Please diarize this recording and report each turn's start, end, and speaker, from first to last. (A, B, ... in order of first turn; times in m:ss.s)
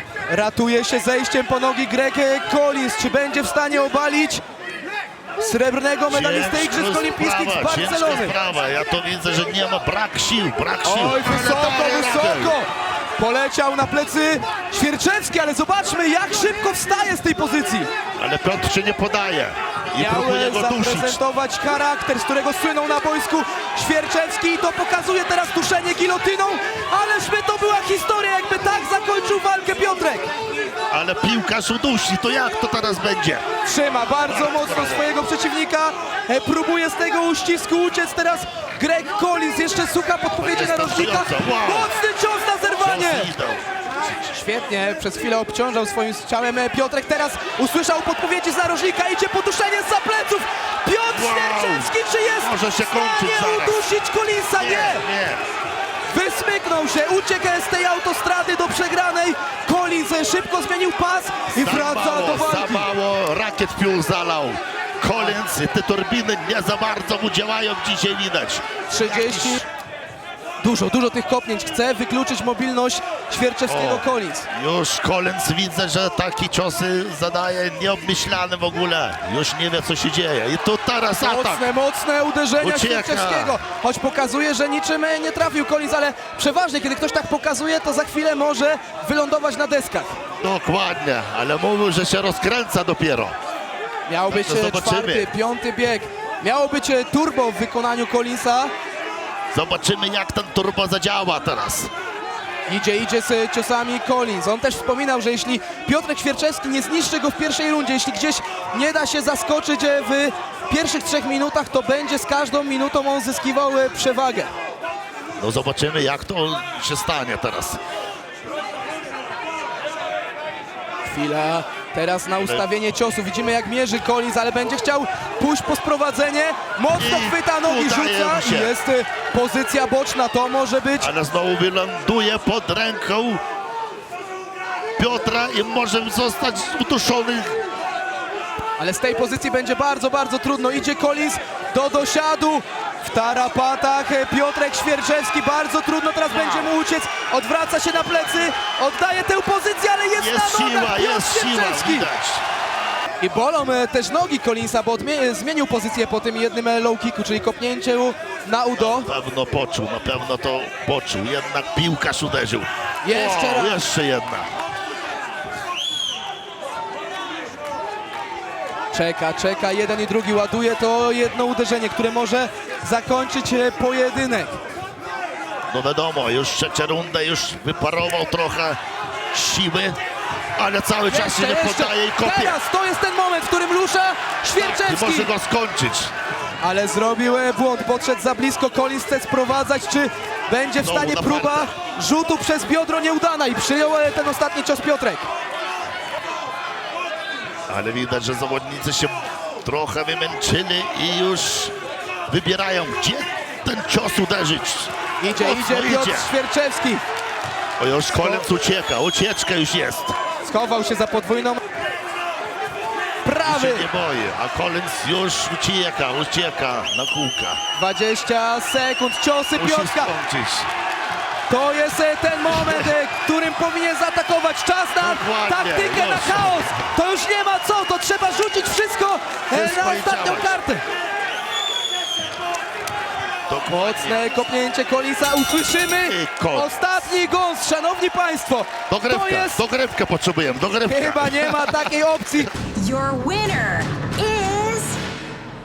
0:00.3-0:04.4 A
0:05.4-0:08.4 A
0:06.1-0:12.6 B
0:10.8-0:17.9 A
0:18.2-0:21.2 B
0:20.0-0:30.3 A
0:30.9-0:33.5 B
0:33.6-0:43.3 A
0:34.2-0:35.1 B
0:40.4-0:42.0 B
0:42.8-0:44.3 B
0:44.3-0:55.1 A
0:51.1-0:53.8 B
0:54.6-0:55.4 B
0:56.1-1:02.9 A
1:01.6-1:09.6 B
1:08.9-1:09.6 A
1:10.6-1:14.5 A
1:13.7-1:21.7 B
1:21.2-1:30.2 A
1:22.6-1:23.6 B
1:30.4-1:33.4 B
1:34.1-1:38.7 A
1:34.3-1:35.3 B
1:39.5-1:41.9 B
1:42.7-1:54.5 A
1:55.4-1:57.8 B
2:01.0-2:11.1 A
2:02.4-2:02.6 B
2:06.9-2:08.8 B
2:11.0-2:13.4 B
2:15.0-2:17.6 B
2:18.8-2:32.1 A
2:26.3-2:26.7 B
2:28.0-2:28.5 B
2:30.2-2:32.4 B
2:33.2-2:39.1 A
2:38.8-2:44.5 B
2:43.0-2:43.8 A
2:48.9-2:54.6 A
2:55.7-2:58.8 B
2:59.3-3:00.0 B
3:00.6-3:02.6 B
3:01.1-3:05.3 A
3:04.6-3:06.1 B
3:06.6-3:15.3 A
3:10.8-3:11.7 B
3:17.7-3:21.7 B
3:22.3-3:26.3 B
3:25.2-3:27.0 A
3:27.8-3:30.2 B
3:28.1-3:28.5 A
3:30.4-3:31.6 A
3:33.2-3:33.9 A
3:33.4-3:37.6 B
3:37.8-3:40.1 A
3:39.6-3:40.7 B
3:41.5-3:50.8 A
3:45.0-3:46.8 B
3:49.5-3:50.6 B
3:53.5-3:54.2 B
3:53.7-3:59.6 A
3:55.9-3:56.7 B
3:58.9-4:01.9 B
4:00.9-4:02.6 A
4:02.8-4:05.0 C